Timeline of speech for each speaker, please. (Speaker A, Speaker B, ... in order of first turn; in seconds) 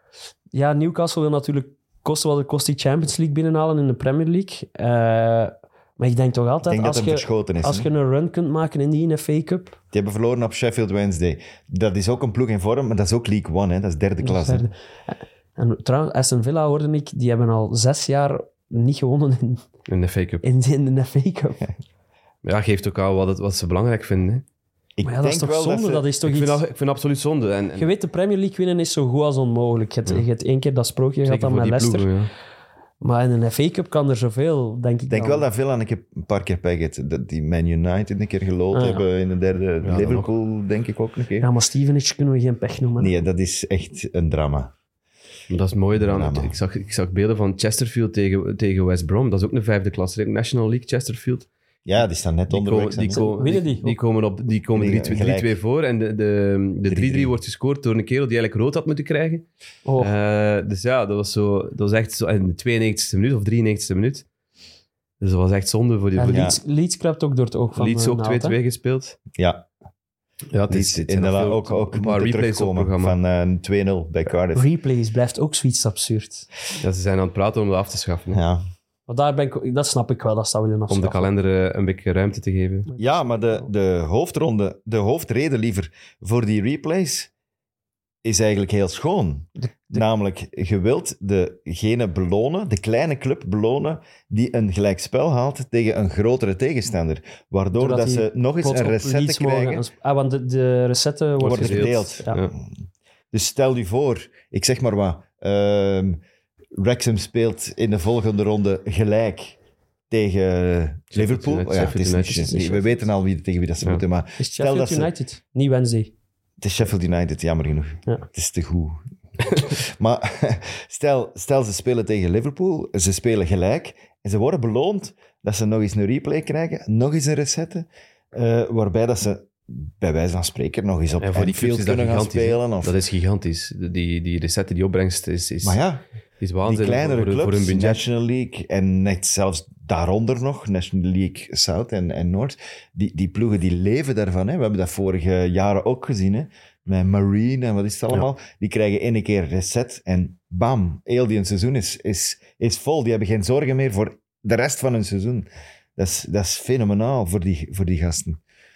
Speaker A: 0.5-9.8, 14.2-19.6, 20.4-21.7, 25.0-26.6, 27.8-32.1, 33.0-35.5, 38.7-39.0, 41.4-43.1, 53.1-54.0, 59.9-60.1, 66.2-68.6, 74.5-76.5, 79.1-81.3, 89.6-90.0, 97.7-102.4, 114.4-116.1
Speaker B: 6.7-7.9, 9.9-14.7, 25.0-26.1, 35.1-41.5, 43.0-44.7, 46.0-46.6, 51.9-53.3, 54.7-55.5, 56.9-57.4, 66.3-66.6, 69.3-69.7, 70.7-74.7, 78.3-78.6, 83.0-87.3, 88.2-99.8, 101.4-102.8, 103.3-106.2, 106.8-109.6, 110.1-115.1, 116.6-119.0, 119.5-133.0, 135.6-136.0, 136.6-158.4
Speaker C: 19.9-20.4, 22.4-24.4, 26.2-27.9, 31.2-32.3, 39.8-40.3, 45.5-51.5, 52.5-59.5, 60.0-64.3, 65.2-66.5, 67.8-69.2, 70.5-73.2, 76.8-78.4, 80.9-82.9, 101.4-102.5, 111.1-112.8, 131.2-135.8, 136.4-138.0